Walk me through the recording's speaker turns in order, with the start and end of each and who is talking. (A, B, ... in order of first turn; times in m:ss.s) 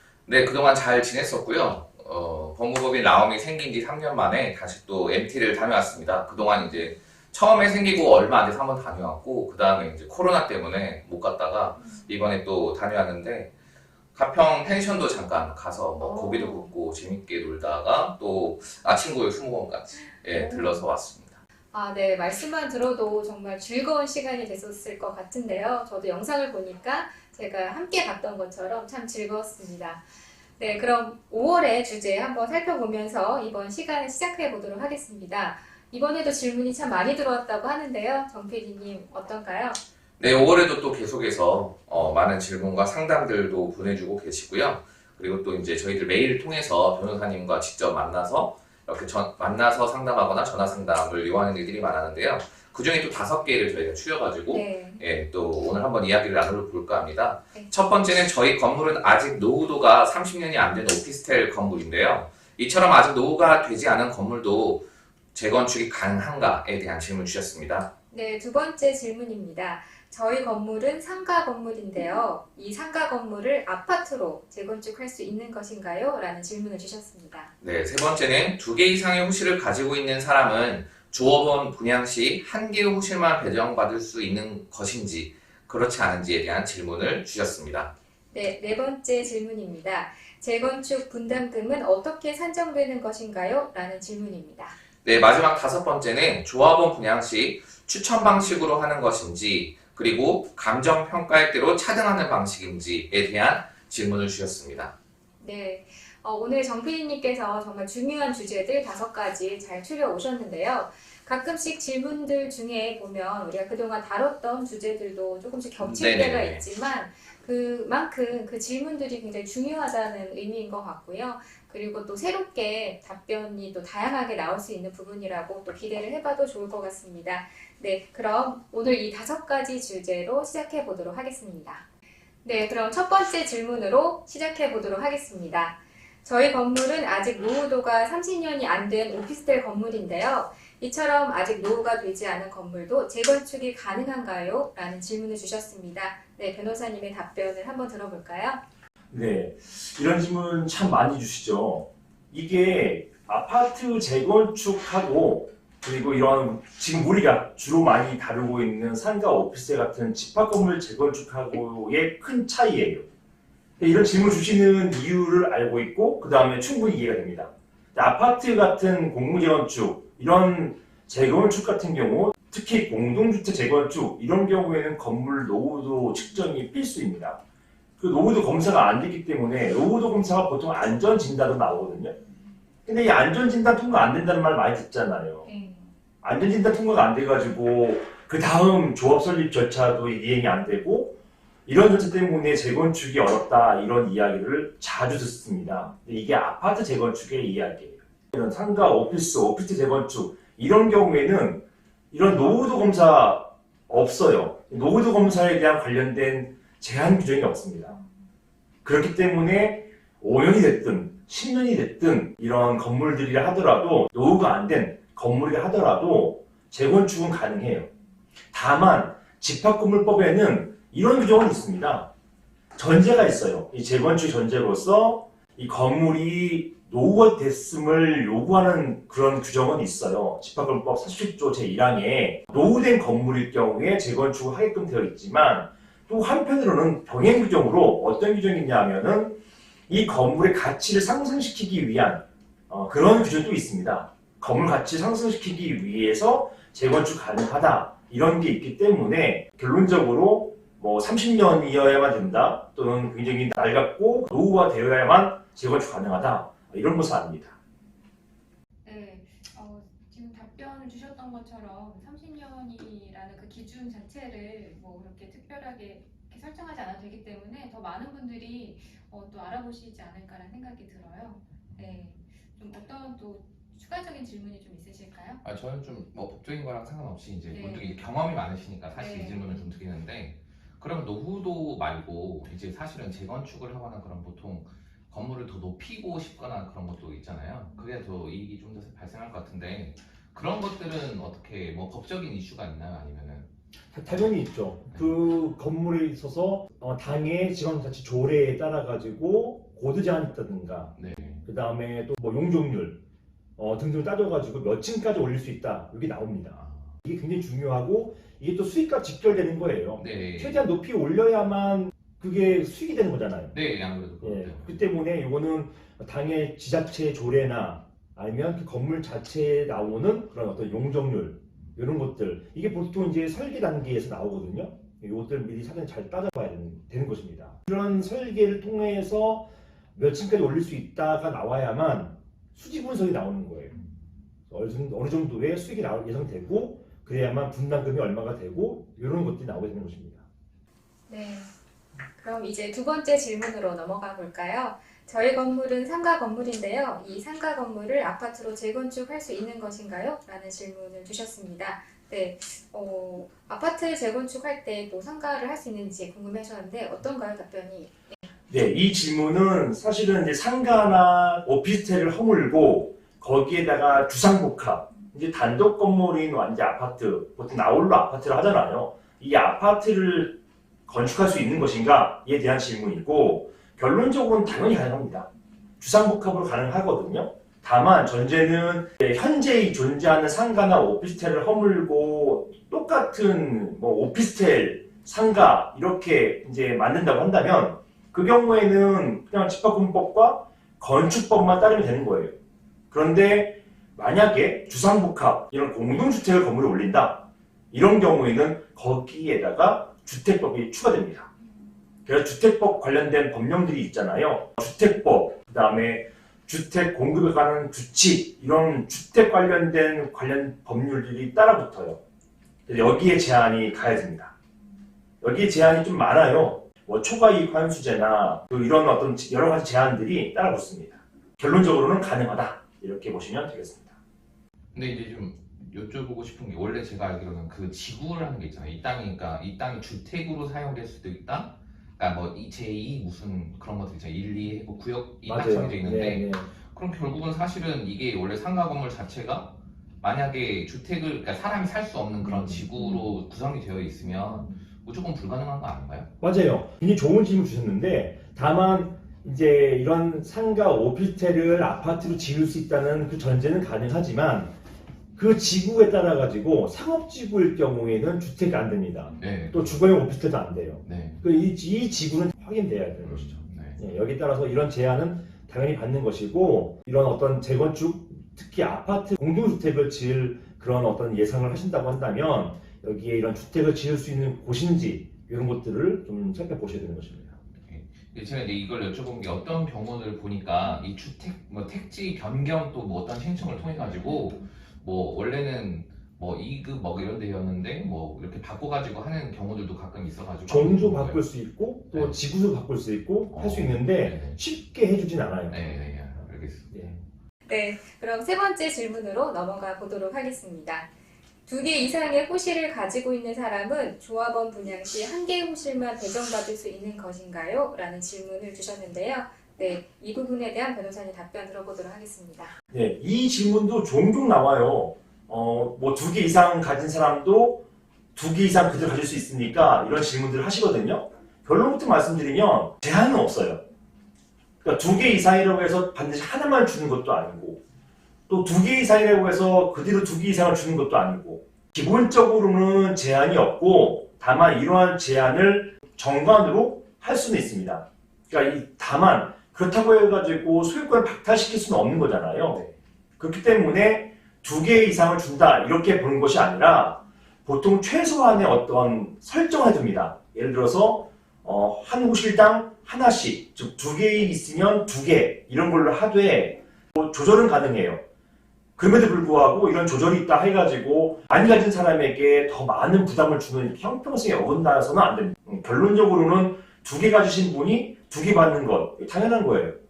0:00.2-0:13.5 A
0:14.1-0:21.4 A
0:16.0-0:16.7 B
0:20.3-0:20.8 B
0:21.7-0:30.0 B
0:30.6-0:39.8 B
0:40.2-1:04.8 A
0:54.5-0:55.0 B
1:05.3-1:07.9 A
1:08.1-1:17.5 B
1:17.6-1:27.9 A
1:28.3-1:34.8 B
1:35.0-1:44.9 A
1:45.4-2:11.8 B
1:55.8-1:56.6 A
2:12.4-2:28.6 B
2:29.1-2:43.0 C
2:43.8-2:57.4 C
2:58.0-3:02.1 C
3:02.8-3:05.5 C
3:05.4-3:05.9 B
3:06.2-3:11.1 C
3:11.6-3:21.6 C
3:22.1-3:28.0 C
3:28.8-3:37.9 C
3:38.5-3:42.1 C
3:42.8-4:17.6 C
4:18.8-4:35.4 B
4:35.4-4:53.5 A
4:37.5-4:38.0 B
4:38.9-4:39.7 B
4:53.9-5:00.9 C
5:01.0-5:01.4 A
5:01.4-5:03.0 C
5:03.6-5:13.6 C
5:06.6-5:06.9 A
5:10.0-5:10.6 A
5:13.5-5:14.8 A
5:14.2-5:33.8 C
5:34.5-5:40.2 C
5:41.1-5:41.5 B
5:42.2-5:58.2 B
5:58.5-6:15.3 C
6:15.8-6:32.3 C
6:32.9-6:41.3 C
6:42.0-6:52.0 C
6:52.7-6:54.3 C
6:55.2-7:03.9 C
7:04.7-7:26.1 A
7:15.2-7:16.5 C
7:26.2-7:34.5 C
7:35.2-7:57.4 C
7:39.2-7:39.8 A
7:40.8-7:41.2 A
7:43.0-7:43.8 A
7:57.7-8:11.2 A
8:10.4-8:15.7 C
8:11.9-8:12.2 A
8:13.3-8:14.4 A
8:15.5-8:16.9 A
8:17.5-8:20.9 B
8:21.5-8:32.5 B
8:32.7-8:37.6 C
8:38.1-8:43.6 C
8:44.6-8:47.6 C
8:48.3-9:02.6 C
9:03.2-9:18.0 C
9:18.8-9:29.7 C